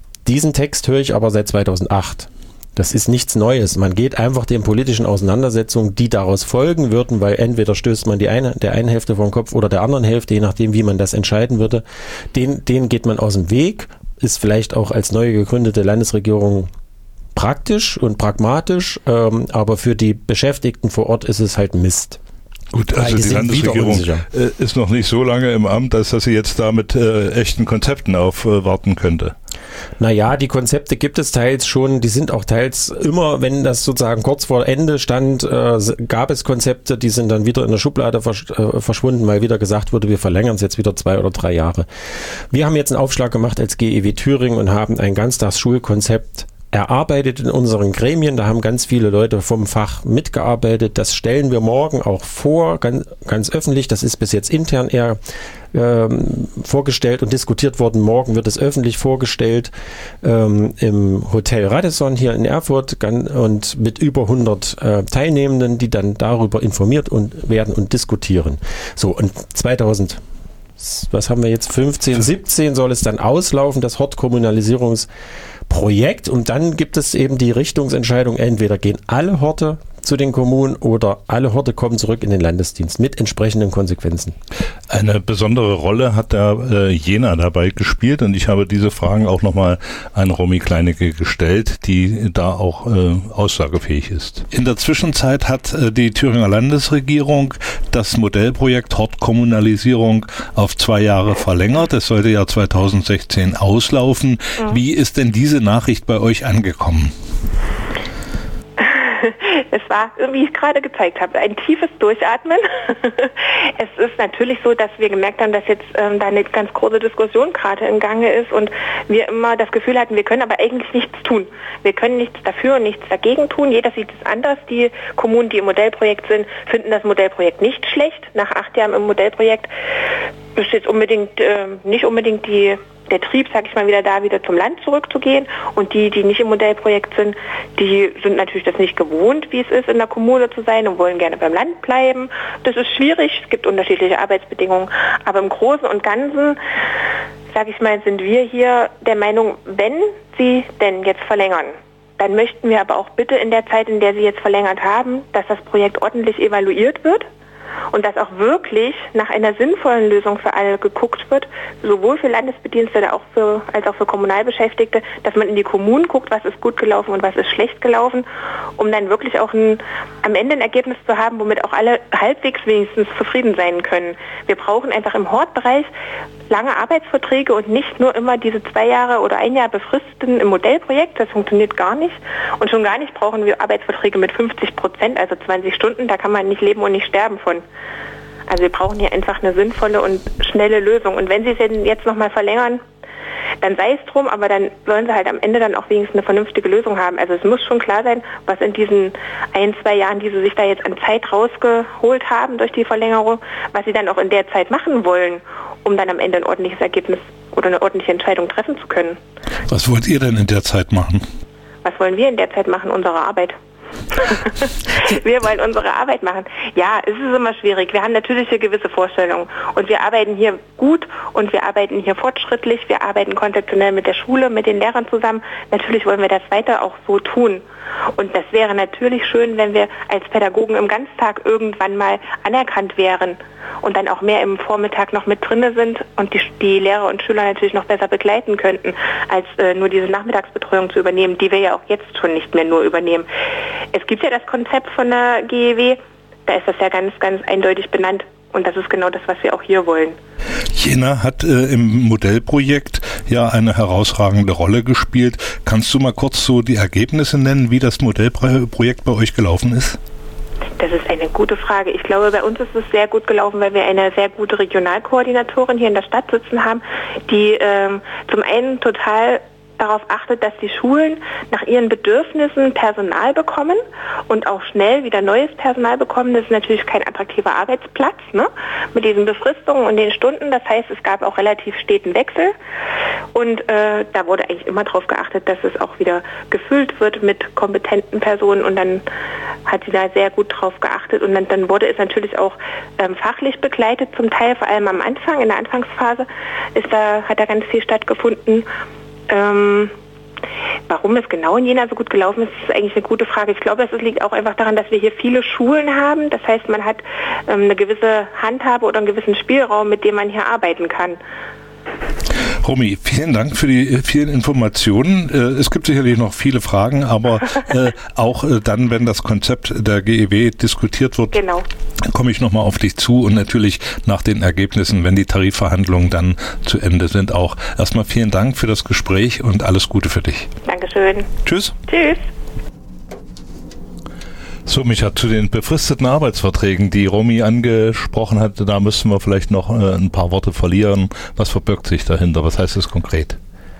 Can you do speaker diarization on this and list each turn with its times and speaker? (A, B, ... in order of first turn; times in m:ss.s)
0:00.2-0:16.7 A
0:17.4-0:22.2 A
0:22.7-0:29.3 B
0:23.0-0:24.3 A
0:30.0-0:41.9 A
0:42.5-0:55.2 A
0:55.7-1:10.2 A
1:10.8-1:15.1 A
1:15.7-1:24.4 A
1:24.9-1:47.1 B
1:48.8-2:09.7 C
2:10.6-2:26.6 C
2:27.5-2:37.3 C
2:37.9-2:48.3 C
2:48.8-2:55.9 C
2:56.5-3:07.6 C
3:08.5-3:12.8 C
3:13.6-3:29.2 C
3:29.7-3:31.2 B
3:31.8-3:33.6 C
3:34.1-3:47.6 C
3:48.2-4:03.3 C
4:03.9-4:10.2 C
4:10.7-4:20.0 B
4:20.8-4:42.5 C
4:43.3-4:49.0 C
4:49.7-4:58.7 C
4:59.3-4:59.9 C
5:00.9-5:11.2 C
5:12.6-5:21.4 B
5:21.3-5:21.6 C
5:22.1-5:30.5 B
5:30.6-5:31.3 C
5:31.4-5:31.8 B
5:31.9-5:32.2 C
5:34.7-5:43.4 B